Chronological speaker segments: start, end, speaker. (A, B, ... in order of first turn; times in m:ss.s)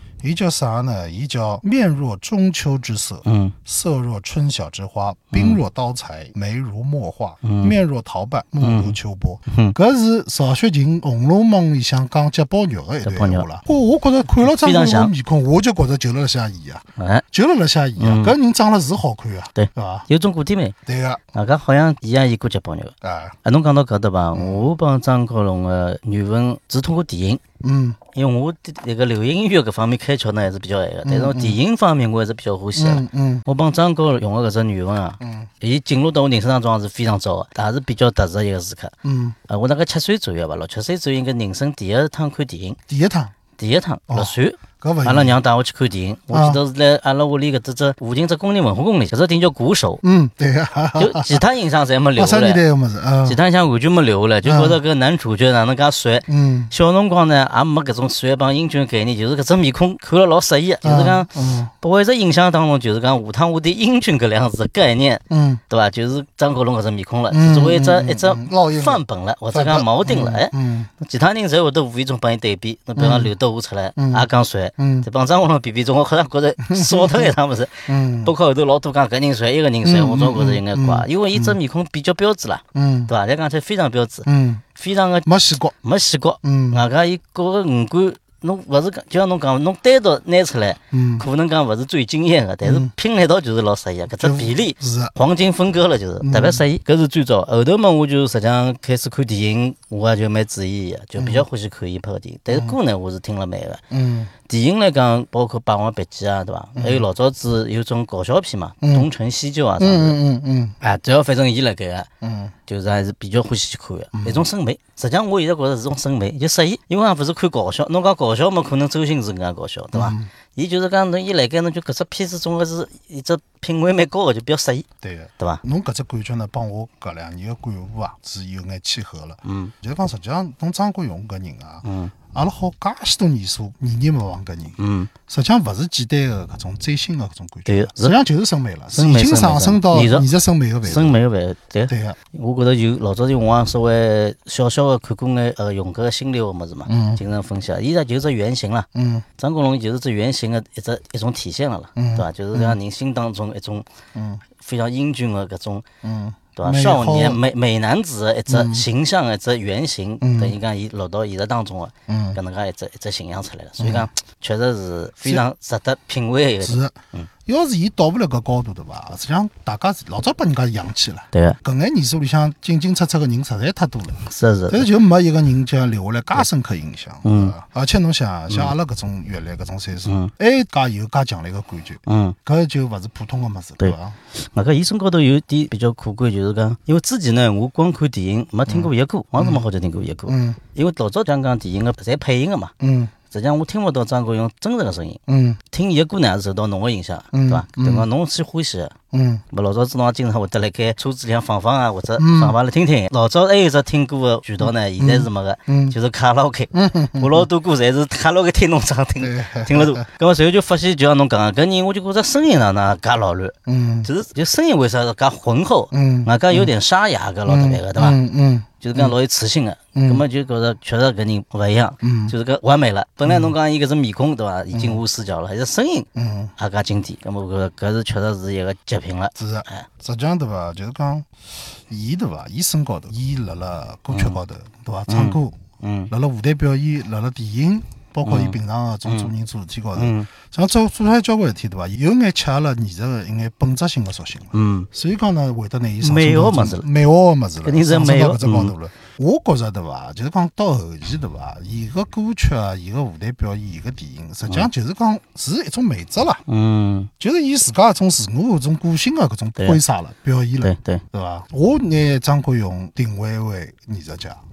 0:00.2-0:20.1 A
0:03.2-0:03.6 B
0:05.3-0:05.6 B
0:07.4-0:07.8 B
0:08.6-0:09.0 B
0:09.5-0:09.8 B
0:13.0-0:13.5 B
0:14.4-0:15.1 B
0:17.0-0:17.2 B
0:18.0-0:18.4 B
0:19.6-0:20.8 B
0:20.9-0:21.2 A
0:21.3-0:27.4 B
0:23.0-0:23.4 A
0:24.3-0:24.7 A
0:27.6-0:28.0 A
0:28.1-0:39.0 B
0:31.0-0:31.6 A
0:32.8-0:33.4 A
0:35.2-0:35.5 A
0:39.0-0:39.4 A
0:39.5-0:42.8 B
0:42.9-0:43.3 A
0:43.6-0:50.0 B
0:44.1-0:45.4 A
0:46.3-0:46.6 A
0:50.0-0:51.4 A
0:51.0-0:52.6 B
0:52.2-0:53.4 A
0:53.2-1:25.3 B
0:54.4-0:54.8 A
0:56.3-0:56.7 A
1:00.8-1:01.7 A
1:05.3-1:05.6 A
1:07.3-1:10.9 A
1:13.0-1:13.3 A
1:14.0-1:15.1 A
1:16.6-1:17.4 A
1:17.9-1:18.3 A
1:19.8-1:21.6 A
1:22.7-1:23.1 A
1:24.3-1:24.6 A
1:25.3-1:25.8 A
1:25.8-1:43.8 B
1:26.4-1:26.8 A
1:30.9-1:31.3 A
1:32.6-1:32.9 A
1:34.2-1:35.1 A
1:36.2-1:36.6 A
1:41.2-1:41.5 A
1:42.5-1:42.8 A
1:43.9-1:44.3 A
1:44.5-1:50.2 B
1:46.8-1:47.1 A
1:48.8-1:49.1 A
1:49.8-1:50.8 A
1:50.8-1:52.1 B
1:52.2-1:52.6 A
1:52.7-2:04.9 B
1:54.1-1:54.5 A
1:59.9-2:00.3 A
2:05.0-2:21.2 A
2:09.4-2:09.7 B
2:11.8-2:12.2 B
2:14.8-2:15.1 B
2:17.7-2:18.2 B
2:18.9-2:20.3 B
2:20.8-2:33.8 B
2:21.9-2:22.2 A
2:26.9-2:27.2 A
2:28.9-2:29.3 A
2:32.0-2:32.8 A
2:34.2-2:34.4 A
2:34.6-2:35.8 B
2:36.0-2:37.4 A
2:36.6-2:47.3 B
2:38.5-2:38.9 A
2:40.2-2:40.6 A
2:42.1-2:42.4 A
2:43.8-2:44.1 A
2:46.6-3:04.2 A
2:51.3-2:51.6 B
2:54.2-2:54.9 B
2:57.2-2:57.5 B
3:00.0-3:00.3 B
3:02.1-3:02.4 B
3:03.8-3:12.7 B
3:08.7-3:09.6 A
3:10.3-3:10.6 A
3:12.8-3:13.1 A
3:13.3-3:19.0 B
3:15.3-3:15.6 A
3:17.3-3:18.1 A
3:19.1-3:19.4 A
3:19.5-3:38.2 B
3:22.2-3:22.6 A
3:24.6-3:26.0 A
3:26.7-3:27.5 A
3:29.2-3:30.0 A
3:33.7-3:34.1 A
3:35.9-3:36.7 A
3:37.5-3:39.2 A
3:38.8-3:49.9 B
3:40.0-3:40.2 A
3:42.0-3:42.3 A
3:43.3-3:43.5 A
3:44.7-3:45.0 A
3:46.2-3:46.5 A
3:49.4-4:16.4 A
3:54.1-3:54.4 B
3:55.1-3:56.1 B
3:58.2-3:59.3 B
4:00.0-4:00.3 B
4:04.5-4:04.9 B
4:06.0-4:06.9 B
4:07.6-4:08.7 B
4:16.5-4:17.1 B
4:17.2-4:24.4 A
4:20.6-4:21.0 B